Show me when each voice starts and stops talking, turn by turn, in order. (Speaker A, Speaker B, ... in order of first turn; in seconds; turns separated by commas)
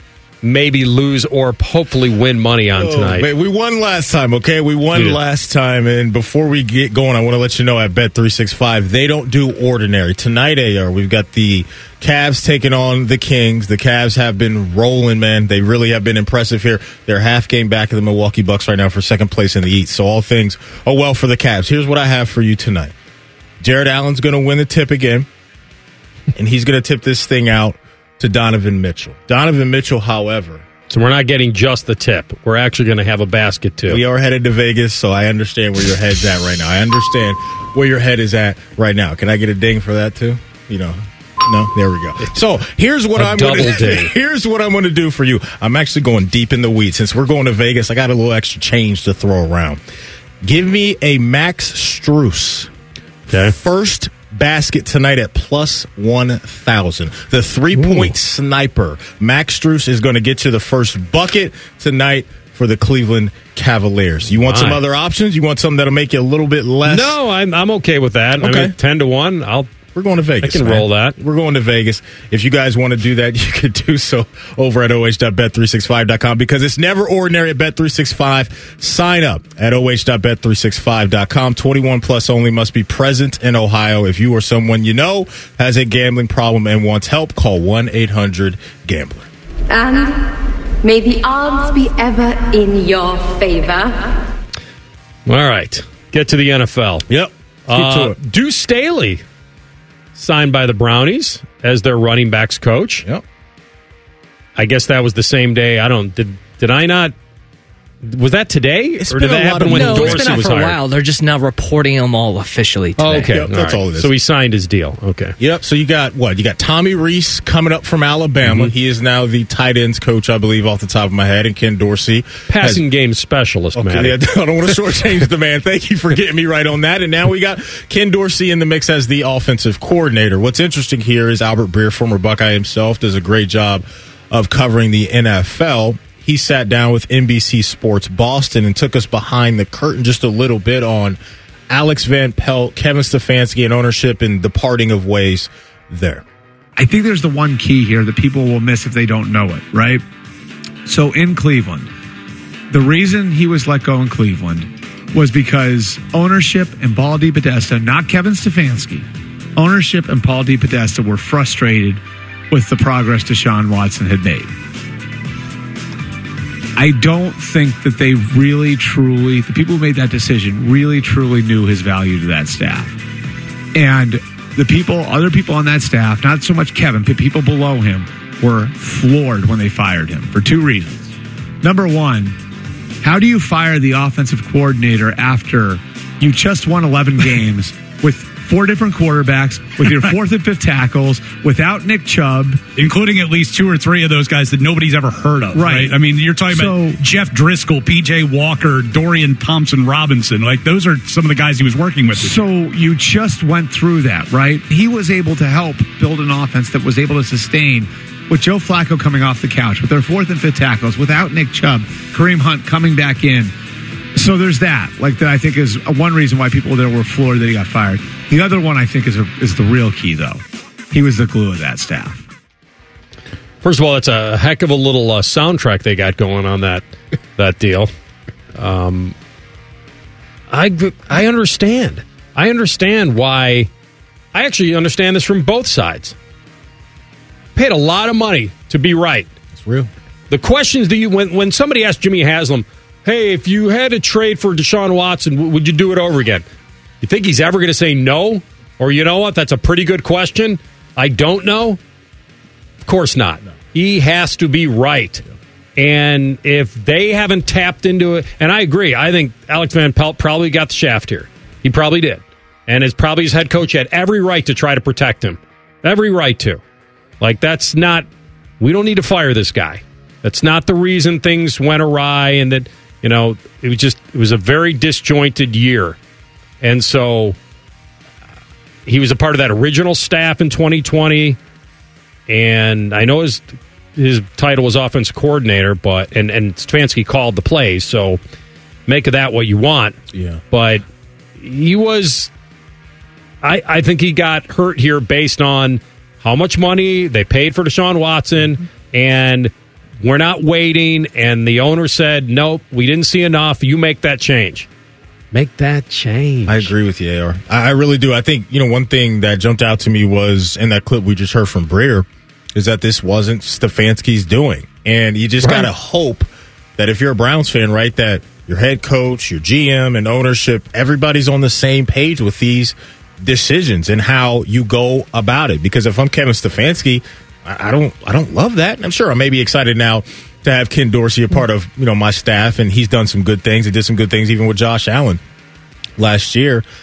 Speaker A: 0.4-3.3, Speaker B: 2.7-22.9, Speaker A: 4.9-5.2, Speaker B: 23.6-25.3, Speaker B: 26.3-30.6, Speaker A: 30.9-34.0, Speaker B: 33.9-49.8, Speaker A: 43.1-44.1, Speaker B: 50.4-52.7, Speaker B: 53.3-67.2, Speaker A: 57.7-58.1, Speaker A: 64.5-64.8, Speaker A: 66.8-69.7, Speaker B: 68.4-68.7, Speaker B: 69.9-89.3, Speaker A: 70.4-71.2, Speaker C: 89.7-94.2, Speaker A: 95.2-97.0, Speaker B: 97.1-98.1, Speaker A: 97.7-99.2, Speaker A: 100.1-103.0, Speaker A: 104.5-107.1, Speaker A: 108.0-110.8, Speaker B: 109.0-110.5, Speaker D: 109.7-113.3, Speaker A: 113.0-115.3, Speaker B: 113.2-114.1, Speaker B: 115.4-122.8, Speaker A: 122.5-124.2, Speaker B: 123.7-141.2, Speaker B: 141.7-146.2, Speaker E: 146.8-150.0, Speaker E: 150.8-151.9, Speaker E: 152.7-164.5, Speaker E: 166.8-173.0, Speaker E: 173.7-181.0, Speaker E: 181.6-182.3, Speaker E: 183.0-192.7, Speaker F: 192.7-202.3, Speaker E: 195.5-197.0, Speaker E: 202.2-213.5, Speaker E: 214.1-222.2, Speaker A: 223.6-226.8, Speaker A: 227.3-227.9, Speaker A: 228.5-229.1, Speaker A: 230.5-233.7, Speaker A: 234.3-236.2, Speaker A: 237.6-239.3, Speaker B: 239.5-239.9, Speaker A: 240.3-246.4, Speaker A: 247.0-251.8, Speaker A: 252.8-255.2, Speaker A: 255.8-266.6, Speaker A: 267.2-268.1, Speaker A: 268.6-276.0, Speaker A: 276.6-277.4, Speaker A: 278.9-281.4, Speaker A: 282.3-288.2, Speaker A: 288.9-290.0, Speaker B: 290.1-290.4, Speaker A: 290.5-290.8, Speaker A: 291.4-292.3, Speaker A: 293.4-304.7, Speaker A: 305.3-306.7, Speaker B: 306.4-335.2, Speaker A: 315.4-315.7, Speaker B: 336.0-336.6